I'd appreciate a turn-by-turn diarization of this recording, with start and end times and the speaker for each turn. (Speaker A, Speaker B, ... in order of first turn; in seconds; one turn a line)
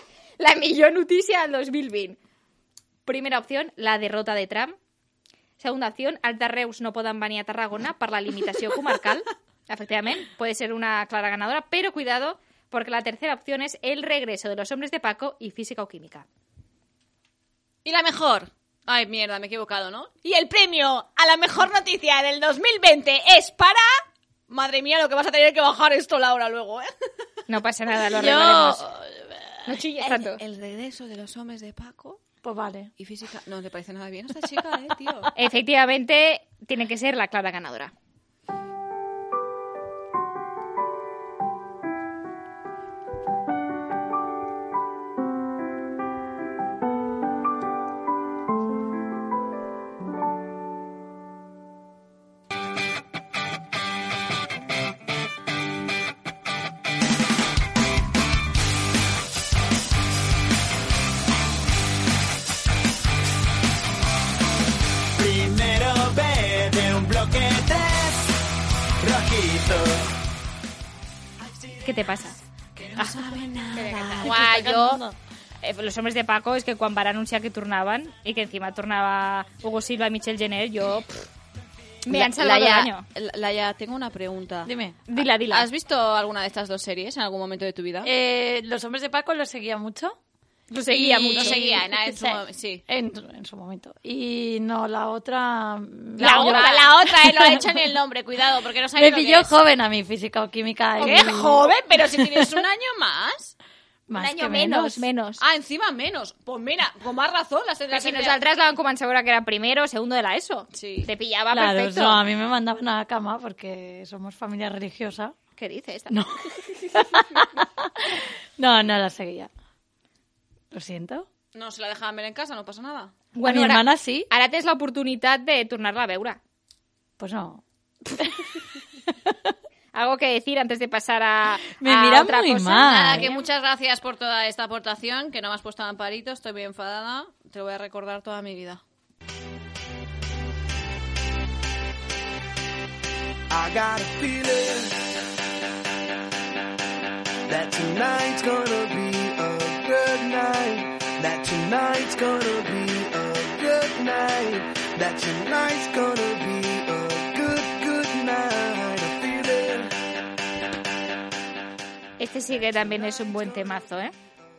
Speaker A: 0.4-2.2
Speaker A: 3.1-4.8
Speaker A: 5.6-16.3
Speaker B: 17.9-23.9
Speaker B: 24.5-26.9
Speaker A: 27.5-28.9
Speaker C: 28.1-29.2
Speaker A: 29.7-30.4
Speaker B: 30.0-32.2
Speaker C: 32.4-32.9
Speaker B: 33.0-35.3
Speaker A: 35.4-37.9
Speaker D: 65.2-68.2
Speaker D: 69.0-70.0
Speaker A: 71.8-72.4
Speaker B: 72.8-74.5
Speaker A: 73.7-75.0
Speaker C: 74.2-75.2
Speaker A: 75.6-81.2
Speaker A: 82.1-83.1
Speaker B: 82.1-84.7
Speaker C: 84.7-85.0
Speaker A: 85.1-85.7
Speaker B: 85.5-88.1
Speaker C: 88.0-90.2
Speaker A: 90.7-91.7
Speaker C: 90.9-97.6
Speaker B: 91.3-92.8
Speaker B: 96.2-99.6
Speaker A: 96.2-96.9
Speaker C: 99.0-101.7
Speaker B: 101.0-103.5
Speaker A: 101.0-101.3
Speaker C: 104.1-105.0
Speaker A: 104.1-105.4
Speaker B: 105.4-108.4
Speaker A: 107.9-112.2
Speaker B: 110.7-111.1
Speaker C: 111.5-115.3
Speaker A: 115.6-116.2
Speaker C: 116.1-116.4
Speaker C: 117.0-117.5
Speaker C: 118.1-119.5
Speaker C: 120.7-121.3
Speaker B: 121.5-123.1
Speaker A: 123.4-126.4
Speaker C: 123.4-124.3
Speaker C: 127.2-127.6
Speaker C: 128.2-128.4
Speaker A: 129.9-133.4
Speaker C: 131.8-133.3
Speaker B: 132.8-138.8
Speaker E: 143.5-145.1
Speaker E: 147.5-159.9
Speaker A: 162.2-164.1